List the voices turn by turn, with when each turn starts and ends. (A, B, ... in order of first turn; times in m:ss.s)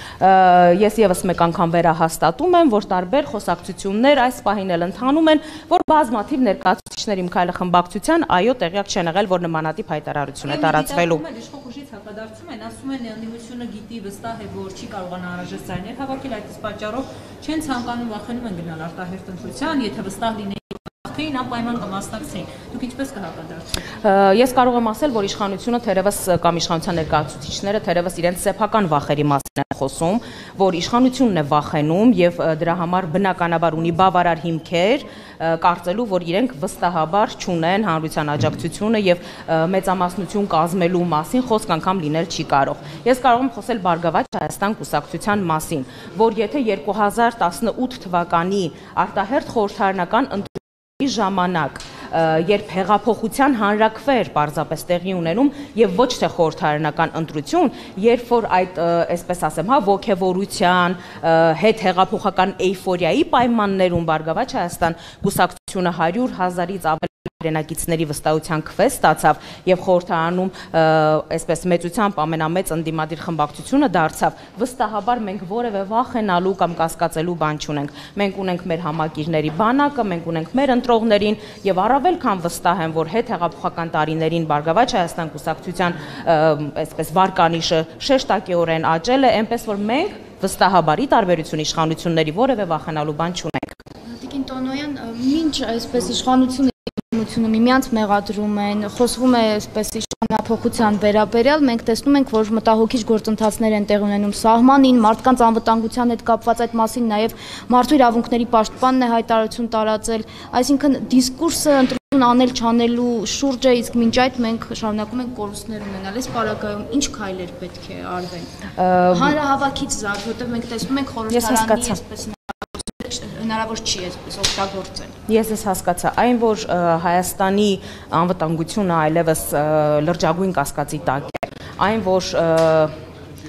0:00.2-0:11.2 A
0:10.4-0:23.9 B
0:24.0-1:33.8 A
1:34.1-1:58.5 C
1:58.8-1:59.4 A
1:59.1-2:05.2 C
2:01.3-2:02.0 A
2:05.3-2:12.9 A